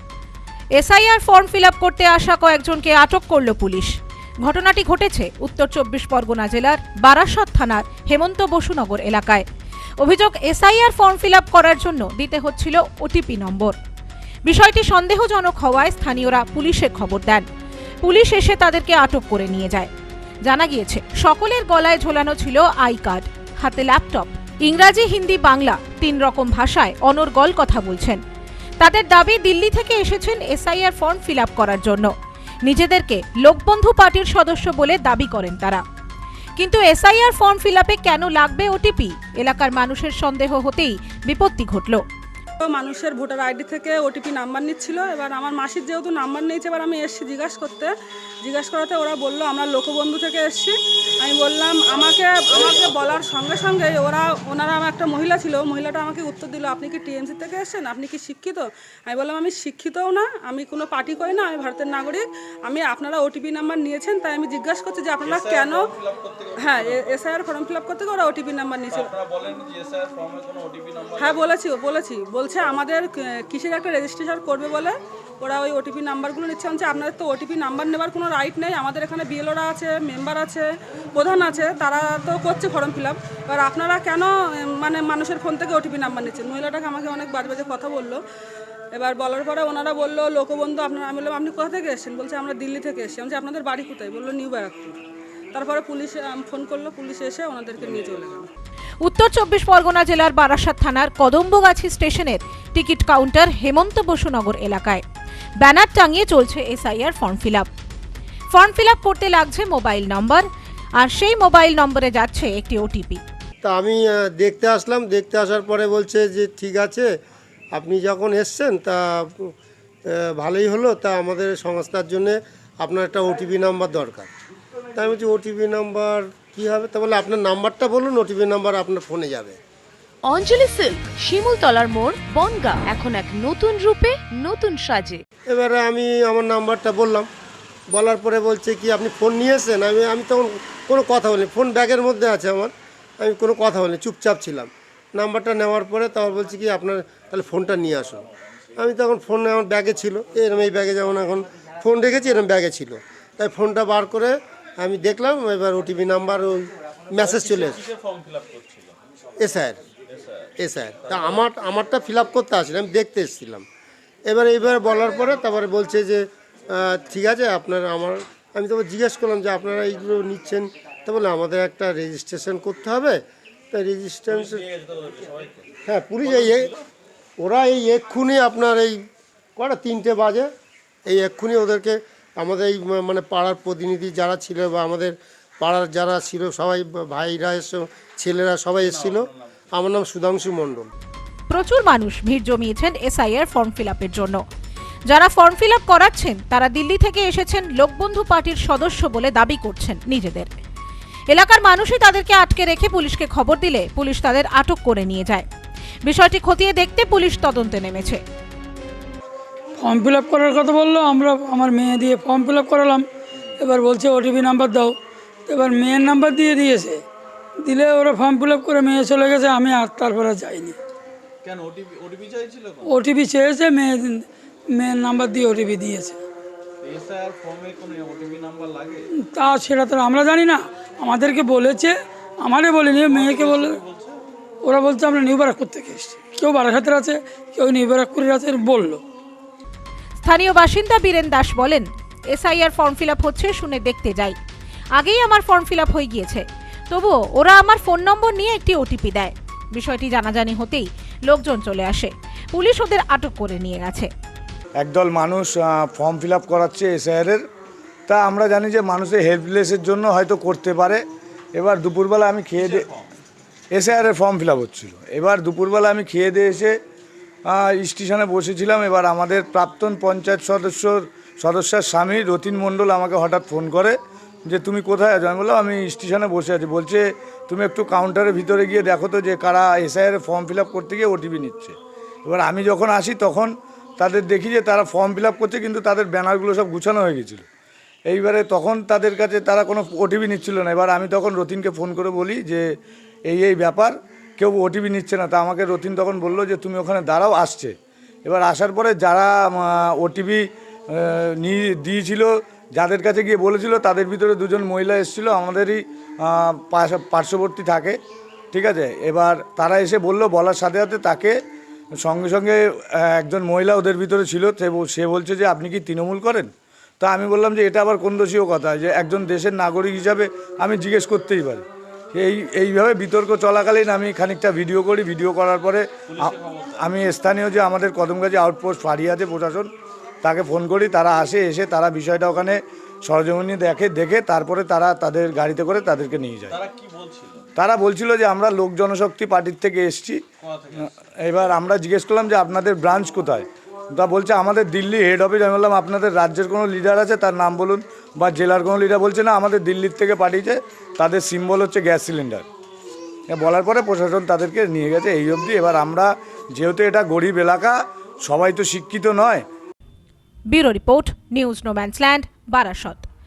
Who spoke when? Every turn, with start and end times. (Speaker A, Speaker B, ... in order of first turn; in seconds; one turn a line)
Speaker A: 0.8-9.4
Speaker A: 10.0-13.8
Speaker A: 14.4-17.4
Speaker A: 18.0-19.9
Speaker A: 20.4-28.2
Speaker A: 28.8-32.1
Speaker A: 32.6-35.8
Speaker A: 36.6-42.0
Speaker B: 42.6-47.9
Speaker B: 48.4-65.9
Speaker C: 65.2-67.2
Speaker B: 66.6-69.1
Speaker C: 68.9-71.5
Speaker B: 71.2-88.2
Speaker B: 88.9-95.0
Speaker B: 95.5-98.5
Speaker C: 97.8-98.2
Speaker A: 99.0-105.0
Speaker A: 105.6-107.7
Speaker A: 108.5-110.5
Speaker A: 111.0-113.2
Speaker D: 113.6-117.1
Speaker D: 117.7-119.5
Speaker D: 120.1-124.3
Speaker D: 124.9-129.6
Speaker E: 130.2-135.2
Speaker D: 135.5-137.3
Speaker D: 137.9-148.2
Speaker D: 148.8-157.8
Speaker C: 157.2-158.9
Speaker D: 159.4-159.8
Speaker C: 160.1-161.5
Speaker D: 160.6-163.7
Speaker D: 164.2-173.2
Speaker D: 173.7-174.6
Speaker C: 174.3-176.8
Speaker D: 175.8-176.7
Speaker D: 177.4-179.0
Speaker D: 179.6-180.5
Speaker D: 181.0-190.9
Speaker C: 188.8-189.5
Speaker A: 191.5-194.4
Speaker A: 195.1-200.5
Speaker A: 201.3-205.4
Speaker A: 206.0-208.2
Speaker F: 209.8-213.0
Speaker F: 213.6-214.9
Speaker F: 215.5-217.0
Speaker F: 217.6-220.8
Speaker C: 221.4-223.0
Speaker F: 222.8-226.2
Speaker C: 226.8-229.0
Speaker F: 229.3-233.8
Speaker C: 233.1-234.2
Speaker F: 234.6-239.0
Speaker A: 240.2-244.3
Speaker A: 244.9-254.1
Speaker G: 254.8-257.4
Speaker G: 258.1-261.0
Speaker G: 261.6-262.9
Speaker C: 262.6-263.0
Speaker G: 263.7-266.8
Speaker G: 267.5-287.4
Speaker G: 288.1-292.6
Speaker G: 293.3-308.0
Speaker G: 308.5-311.4
Speaker G: 312.0-316.5
Speaker G: 317.0-329.7
Speaker C: 326.1-326.8
Speaker G: 330.2-336.6
Speaker C: 336.5-337.4
Speaker G: 337.6-340.2
Speaker C: 340.4-340.9
Speaker G: 341.2-352.4
Speaker G: 353.3-359.4
Speaker A: 360.5-363.1